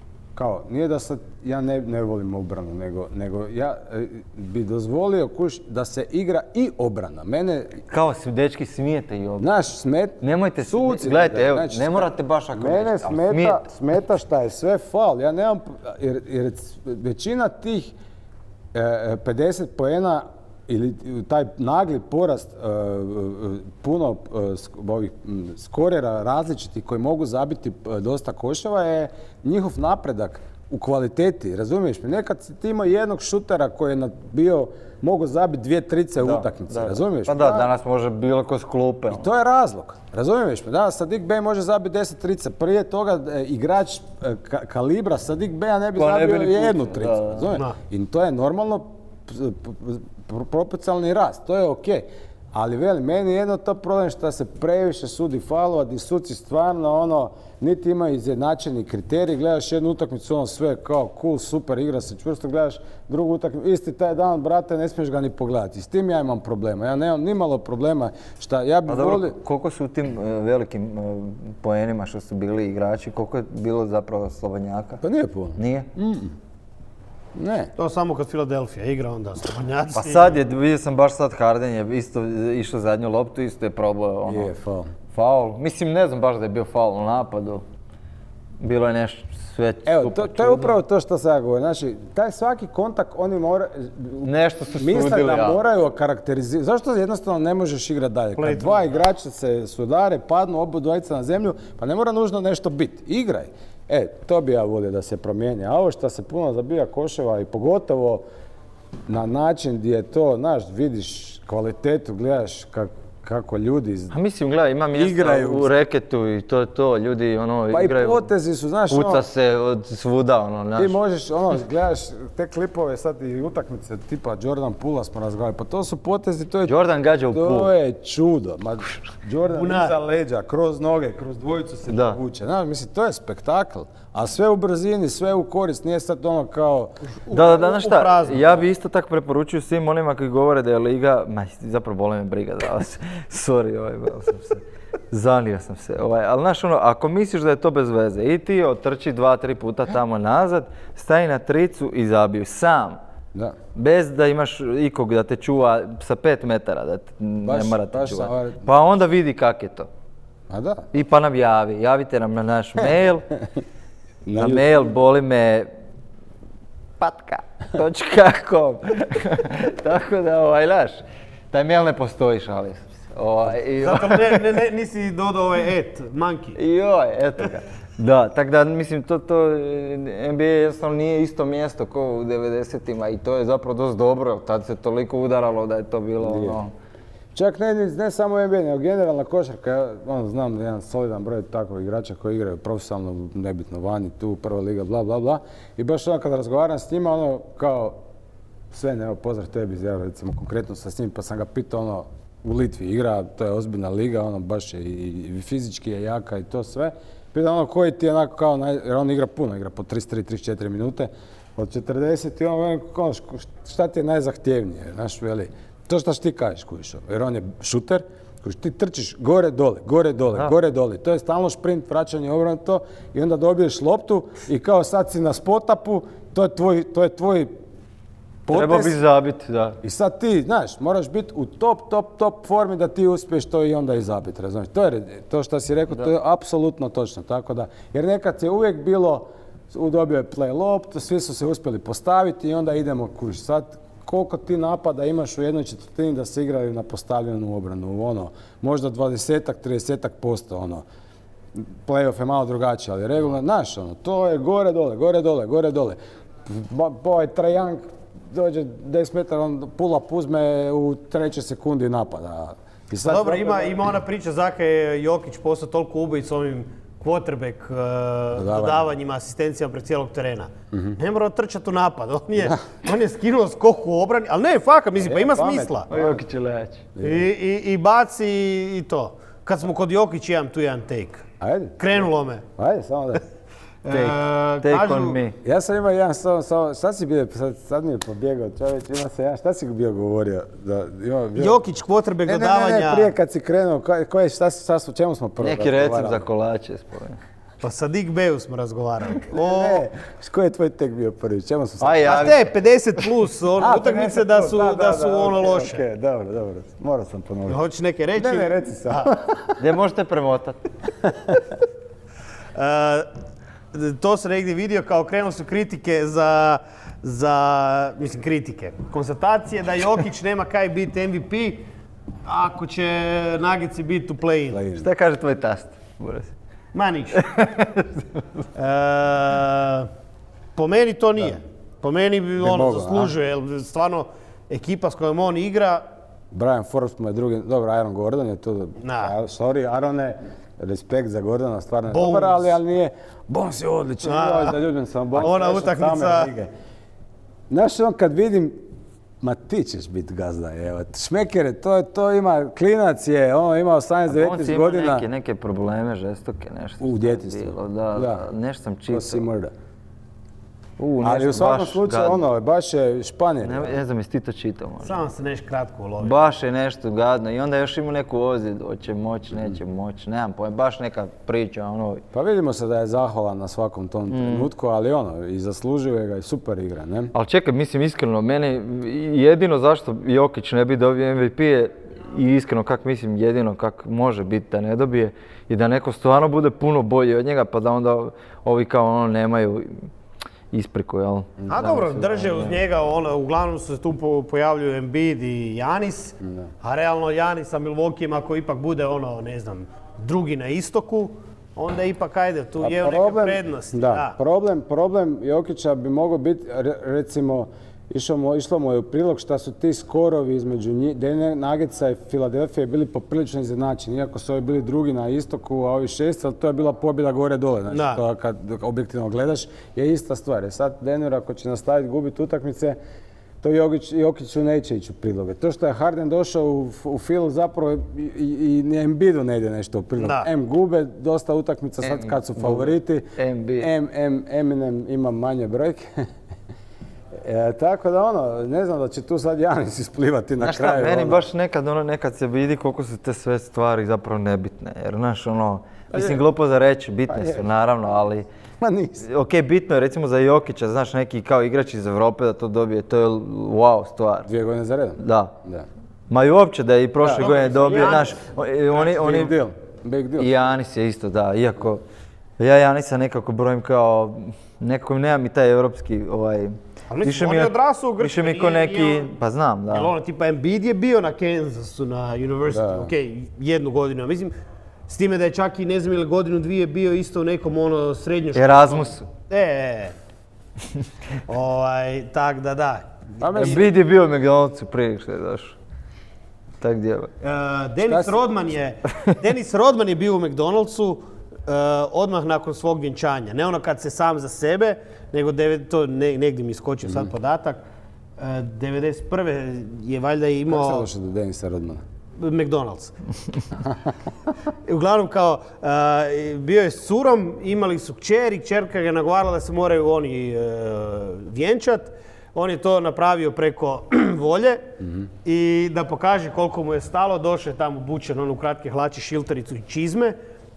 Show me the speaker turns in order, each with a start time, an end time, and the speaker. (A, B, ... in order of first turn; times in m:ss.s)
0:00.4-0:07.8 A
0:07.9-0:09.5 B
0:09.4-0:17.9 A
0:10.2-0:13.6 B
0:18.7-0:37.7 A
0:36.2-0:39.3 B
0:39.1-1:09.4 A
0:46.0-0:47.5 B
1:08.9-1:15.0 B
1:15.0-1:16.4 A
1:15.6-1:15.9 B
1:17.4-1:17.7 A
1:17.8-1:20.4 C
1:19.9-1:24.5 B
1:24.2-1:24.9 A
1:25.1-1:27.6 B
1:28.6-1:30.8 B
1:29.8-1:48.2 A
1:34.2-1:35.6 B
1:38.4-1:38.9 C
1:49.1-1:54.1 A
1:54.1-1:58.3 B
1:54.9-1:55.7 A
1:57.7-1:59.2 A
1:58.9-2:01.0 B
2:00.8-2:06.8 A
2:06.6-2:07.7 B
2:07.3-2:16.9 A
2:09.6-2:09.9 C
2:11.9-2:12.2 B
2:17.2-2:18.6 C
2:17.3-2:33.0 B
2:33.7-2:39.9 B
2:37.4-2:38.7 A
2:40.5-2:40.9 A
2:40.9-2:43.3 B
2:44.2-2:44.9 A
2:44.3-2:45.7 B
2:47.0-2:54.4 B
2:53.8-2:56.6 C
2:56.6-3:06.7 B
3:06.2-3:06.6 A
3:07.3-3:18.0 A
3:18.7-3:47.5 A
3:48.4-3:49.0 A
3:48.5-3:49.8 B
3:49.8-4:10.8 A
4:11.6-4:23.8 A
4:23.0-4:35.9 C
4:28.4-4:28.8 A
4:30.7-4:31.0 A
4:35.0-4:36.2 A
4:35.9-4:36.8 B
4:37.0-4:37.3 A
4:37.0-4:41.2 C
4:41.4-4:42.0 A
4:41.8-4:42.4 C
4:42.6-4:43.2 A
4:43.8-4:45.2 C
4:43.9-4:45.4 B
4:45.4-4:51.6 A
4:51.4-4:53.1 C
4:52.2-4:56.2 A
4:55.4-4:57.2 B
4:57.6-4:59.8 C
4:59.3-5:02.3 A
5:01.8-5:02.5 B
5:02.0-5:05.8 C
5:03.6-5:07.6 A
5:07.5-5:09.1 C
5:08.2-5:09.6 A
5:09.6-5:10.6 B
5:11.0-5:11.4 A
5:12.5-5:13.1 C
5:13.7-5:21.6 C
5:22.2-5:24.6 C
5:24.5-5:24.9 A
5:24.7-5:26.3 B
5:26.7-5:27.2 C
5:27.1-5:28.2 B
5:28.5-5:29.9 C
5:30.6-5:35.8 C
5:32.4-5:33.1 A
5:36.3-5:46.5 A
5:38.8-5:39.1 C
5:41.9-5:42.4 C
5:44.0-5:44.6 C
5:45.2-5:46.3 C
5:47.5-5:48.6 A
5:49.2-5:55.1 A
5:54.1-5:59.2 B
5:56.8-5:58.3 A
5:58.9-5:59.5 A
6:00.8-6:02.2 B
6:01.0-6:03.8 A
6:03.4-6:05.0 B
6:04.8-6:06.2 C
6:06.0-6:12.0 B
6:12.1-6:17.1 A
6:14.1-6:14.5 B
6:17.1-6:29.9 B
6:30.5-6:32.5 B
6:31.4-6:32.5 A
6:31.5-6:44.2 C
6:36.2-6:36.5 A
6:42.6-7:02.8 A
6:57.7-6:58.0 C
7:03.4-7:13.0 A
7:10.0-7:10.3 C
7:11.8-7:13.7 B
7:13.6-7:16.0 A
7:17.2-7:21.2 A
7:20.4-7:28.2 B
7:25.9-7:26.2 A
7:27.1-7:27.5 A
7:28.6-7:29.1 A
7:29.0-7:34.3 B
7:34.3-7:35.6 A
7:35.0-7:35.3 B
7:36.1-7:39.3 B
7:37.0-7:37.9 A
7:37.1-7:38.2 C
7:38.7-7:40.3 A
7:40.2-7:41.8 B
7:42.4-7:49.9 B
7:46.9-7:49.1 C
7:49.7-7:54.3 C
7:52.5-7:52.9 A
7:54.9-7:59.9 C
7:58.3-7:59.1 B
8:01.3-8:03.6 C
8:03.2-8:03.6 A
8:03.3-8:05.6 B
8:06.6-8:07.1 B
8:07.2-8:17.6 C
8:07.8-8:08.2 A
8:18.2-8:20.9 C
8:20.5-8:21.8 A
8:22.2-8:22.9 C
8:23.6-8:23.9 A
8:24.6-8:34.7 C
8:34.8-8:35.1 A
8:35.2-8:40.2 C